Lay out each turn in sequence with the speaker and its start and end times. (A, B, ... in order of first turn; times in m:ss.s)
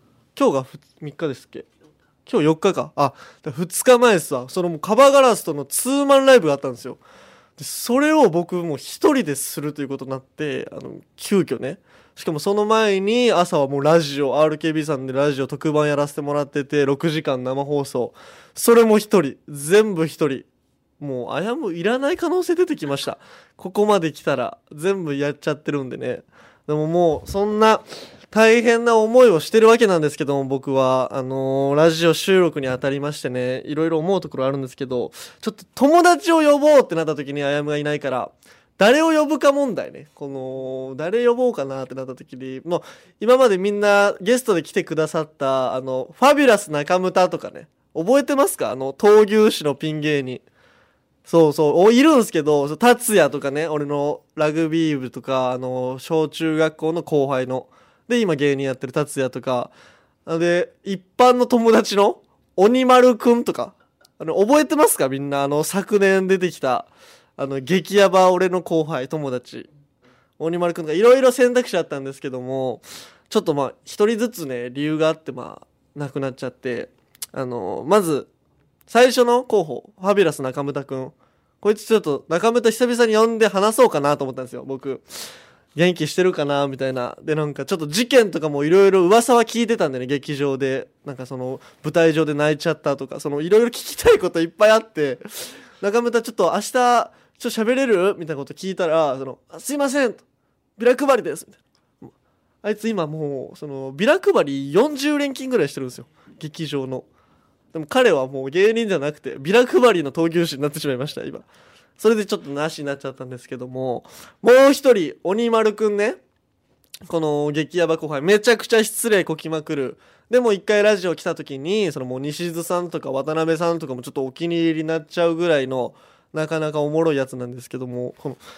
0:00.4-0:01.7 A
0:02.2-0:07.0 A
0:07.6-0:20.5 A
0:21.0-0:50.4 A
0:51.2-0:59.7 A
1:00.2-1:09.7 A
1:10.4-1:18.3 A
1:18.9-1:25.2 A
1:25.7-1:40.2 A
1:40.8-1:42.1 A
1:42.6-1:47.1 A
1:47.7-1:51.4 A
1:52.0-1:56.2 A
1:57.1-2:08.4 A